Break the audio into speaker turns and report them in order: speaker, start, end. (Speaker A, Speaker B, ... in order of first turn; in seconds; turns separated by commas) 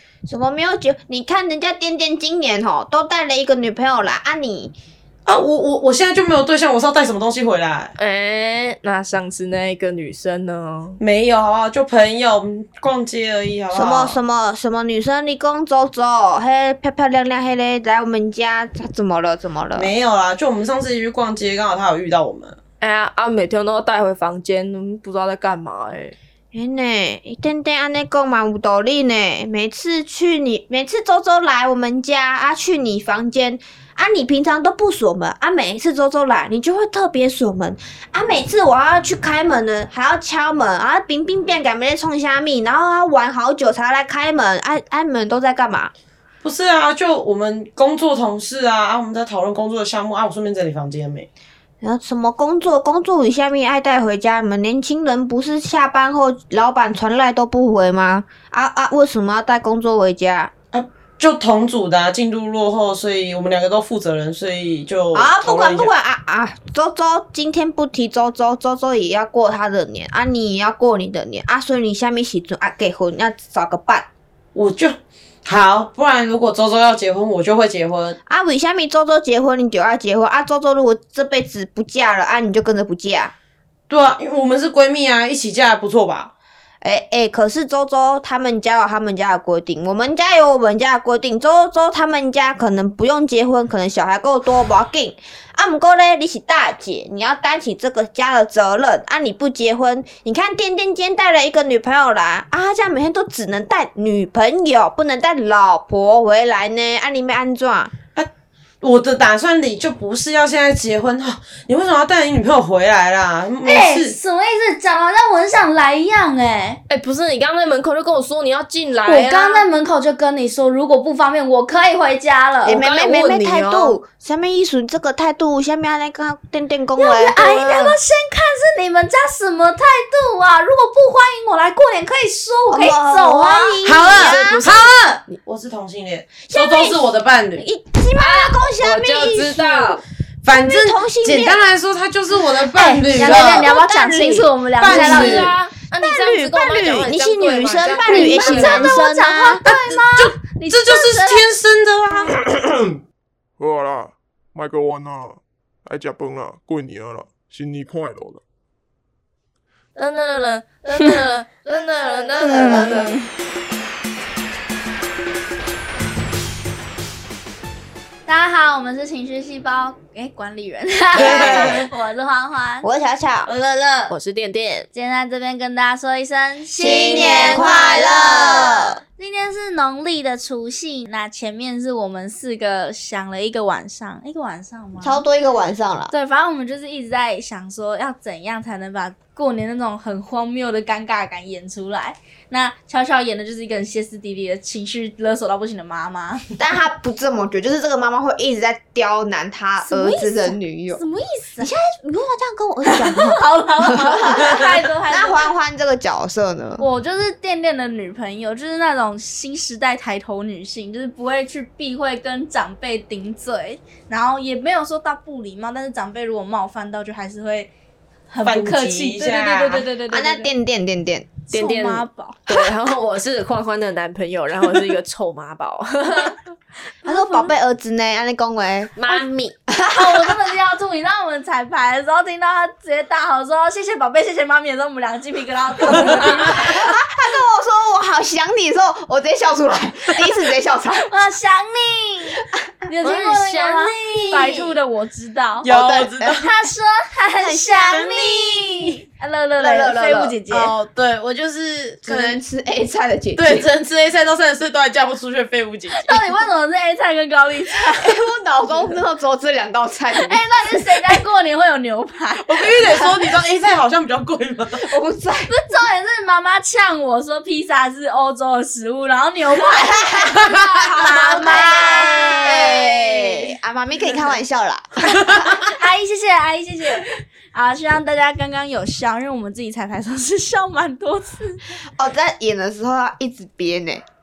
Speaker A: 0.3-4.8, Speaker B: 5.3-7.9, Speaker C: 8.0-11.0, Speaker B: 11.0-14.2, Speaker A: 13.7-19.9, Speaker B: 19.8-22.6, Speaker C: 22.8-26.2, Speaker A: 26.5-45.9, Speaker B: 46.4-51.3, Speaker A: 51.8-60.5, Speaker B: 60.7-65.9, Speaker A: 65.1-74.1, Speaker B: 74.5-78.2, Speaker A: 78.3-83.3, Speaker B: 83.9-86.3, Speaker A: 86.8-107.9, Speaker B: 108.8-114.2, Speaker D: 113.6-116.8, Speaker C: 116.9-119.7, Speaker D: 119.0-122.8, Speaker A: 122.7-128.0, Speaker C: 122.7-124.0, Speaker D: 127.0-133.8, Speaker A: 132.7-134.7, Speaker B: 133.8-137.7, Speaker C: 134.1-134.9, Speaker A: 136.5-141.7, Speaker C: 138.2-140.0, Speaker B: 140.4-143.7, Speaker D: 142.7-145.5, Speaker A: 143.1-149.6, Speaker B: 144.8-145.6, Speaker C: 145.2-149.0, Speaker D: 148.0-151.5, Speaker B: 149.7-152.3, Speaker E: 152.3-152.9, Speaker E: 153.6-158.4, Speaker C: 160.0-163.2, Speaker D: 160.9-161.2, Speaker D: 162.4-163.3, Speaker A: 162.4-163.0, Speaker D: 168.3-172.9, Speaker C: 171.2-171.6, Speaker A: 171.2-171.9, Speaker B: 171.3-171.8, Speaker A: 172.8-173.5, Speaker C: 173.5-174.9, Speaker D: 174.9-185.2, Speaker A: 176.8-179.0, Speaker C: 176.9-177.6, Speaker A: 185.0-186.1, Speaker D: 186.1-196.4, Speaker A: 196.6-201.0, Speaker D: 199.8-201.7, Speaker A: 201.6-206.8, Speaker D: 202.9-205.5, Speaker D: 206.8-217.7, Speaker D: 218.3-220.5, Speaker B: 218.4-219.9, Speaker A: 220.1-221.5, Speaker D: 221.5-222.6, Speaker C: 221.5-226.4, Speaker D: 227.0-227.5, Speaker A: 227.1-229.0, Speaker C: 229.0-229.6, Speaker A: 229.7-230.4, Speaker D: 229.9-236.8, Speaker A: 236.0-241.2, Speaker D: 241.0-245.7, Speaker C: 243.0-244.8, Speaker B: 245.6-246.5, Speaker A: 245.6-246.4, Speaker D: 246.4-250.7, Speaker B: 247.4-248.9, Speaker A: 249.6-250.4, Speaker B: 250.5-252.4, Speaker A: 252.1-253.7, Speaker B: 253.3-256.2, Speaker D: 255.9-258.2, Speaker A: 257.8-261.1, Speaker D: 260.1-262.8, Speaker B: 262.4-264.9, Speaker A: 262.9-263.1, Speaker A: 264.8-265.6, Speaker D: 265.5-273.5, Speaker A: 270.9-275.7, Speaker D: 275.6-281.8, Speaker A: 281.9-284.1